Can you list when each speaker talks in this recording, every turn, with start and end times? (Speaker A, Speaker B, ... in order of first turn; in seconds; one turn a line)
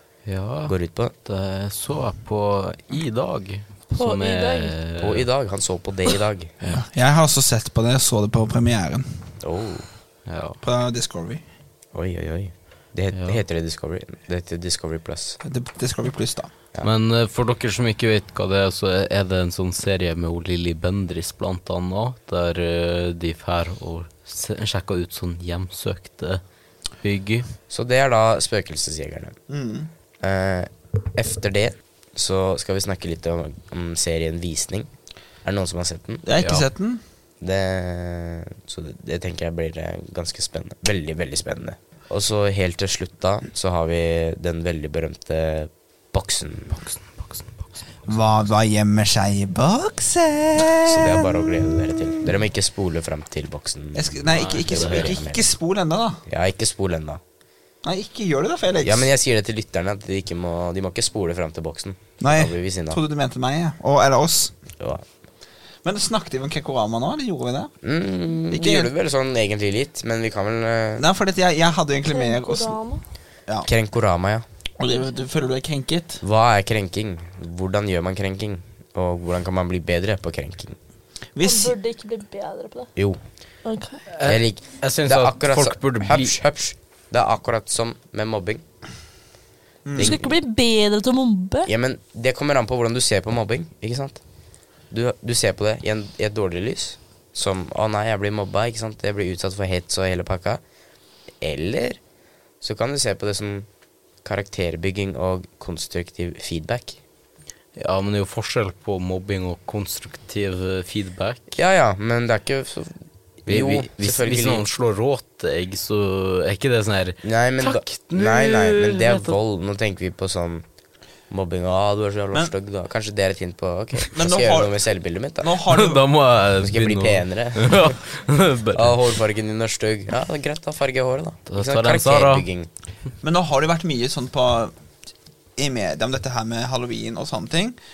Speaker A: 0.2-5.2
Speaker B: 0.6-1.1
Speaker C: 3.9-4.7
Speaker B: 5.0-6.5
Speaker D: 6.7-9.2
Speaker B: 9.4-9.9
Speaker A: 10.2-10.6
Speaker D: 10.6-11.4
Speaker B: 11.9-15.4
Speaker A: 13.1-13.4
Speaker D: 15.4-16.5
Speaker A: 16.8-26.4
Speaker A: 27.0-27.5
Speaker B: 27.7-29.4
Speaker D: 29.5-29.9
Speaker B: 30.2-34.9
Speaker B: 35.4-36.2
Speaker D: 36.2-37.0
Speaker A: 36.4-36.6
Speaker B: 37.4-46.7
Speaker A: 46.8-47.7
Speaker D: 48.1-51.3
Speaker B: 50.8-55.4
Speaker D: 53.9-56.2
Speaker A: 54.3-55.1
Speaker B: 56.3-57.2
Speaker D: 57.8-59.1
Speaker B: 58.8-63.0
Speaker D: 62.2-64.5
Speaker B: 64.8-65.0
Speaker D: 65.8-67.7
Speaker B: 67.8-71.0
Speaker D: 68.5-68.9
Speaker D: 71.0-72.8
Speaker C: 72.0-73.0
Speaker B: 73.6-74.4
Speaker D: 74.8-76.2
Speaker B: 76.2-80.8
Speaker D: 81.3-81.8
Speaker C: 81.4-82.9
Speaker C: 83.6-84.0
Speaker A: 84.1-86.4
Speaker B: 84.2-88.6
Speaker D: 89.8-90.1
Speaker B: 89.9-90.3
Speaker C: 90.0-91.7
Speaker B: 91.7-94.2
Speaker B: 94.9-100.6
Speaker B: 101.4-102.0
Speaker B: 102.6-103.7
Speaker B: 104.2-107.0
Speaker A: 107.8-111.4
Speaker B: 111.5-114.7
Speaker A: 113.5-119.3
Speaker B: 117.2-120.7
Speaker B: 121.3-125.5
Speaker D: 124.1-124.7
Speaker D: 125.4-126.0
Speaker A: 125.7-128.9
Speaker B: 126.6-128.0
Speaker B: 128.7-132.7
Speaker A: 131.5-132.5
Speaker D: 133.2-134.7
Speaker D: 135.6-137.8